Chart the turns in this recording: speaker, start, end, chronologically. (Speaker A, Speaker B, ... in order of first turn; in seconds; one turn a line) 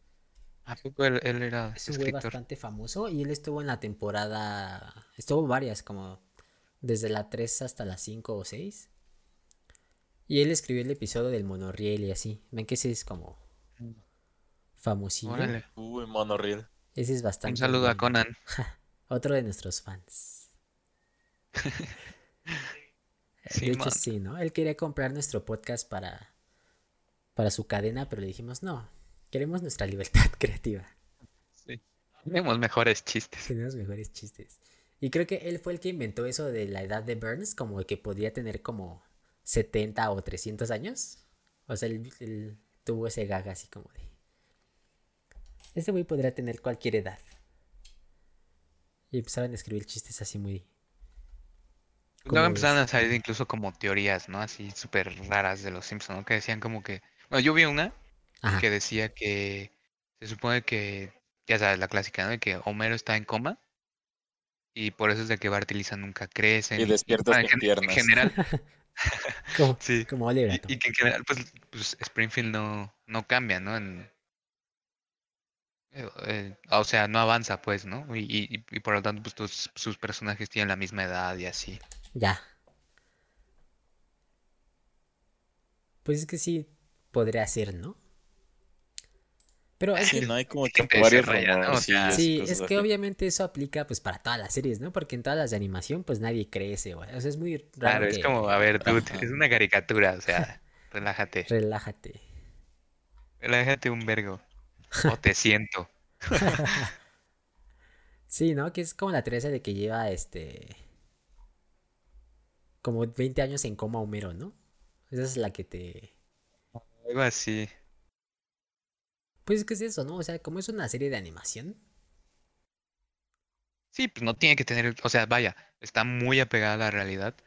Speaker A: 0.7-2.4
Speaker B: 1.8-6.2
Speaker B: 6.8-8.9
Speaker B: 10.3-13.4
Speaker B: 14.8-15.5
Speaker A: 15.2-15.7
Speaker C: 15.7-16.7
Speaker B: 16.9-20.4
Speaker A: 17.4-18.3
Speaker A: 21.6-21.9
Speaker B: 23.4-26.3
Speaker A: 23.5-24.0
Speaker B: 27.4-30.9
Speaker A: 31.6-33.5
Speaker B: 33.5-44.1
Speaker B: 45.7-47.2
Speaker B: 49.1-50.7
Speaker B: 52.2-52.8
Speaker A: 52.3-57.9
Speaker A: 58.5-63.6
Speaker A: 64.7-68.4
Speaker C: 66.8-68.1
Speaker B: 68.3-68.6
Speaker A: 69.0-74.1
Speaker B: 69.5-70.8
Speaker A: 75.9-81.8
Speaker B: 82.1-82.4
Speaker B: 86.0-88.0
Speaker B: 89.8-90.2
Speaker A: 90.0-92.2
Speaker C: 90.0-92.8
Speaker B: 92.1-98.4
Speaker A: 97.8-101.5
Speaker C: 98.8-99.3
Speaker B: 101.5-102.2
Speaker A: 103.4-104.4
Speaker A: 105.0-106.8
Speaker B: 106.4-106.9
Speaker B: 108.3-110.8
Speaker B: 112.8-114.5
Speaker B: 115.1-116.1
Speaker A: 116.7-117.7
Speaker B: 119.5-121.8
Speaker A: 123.9-127.3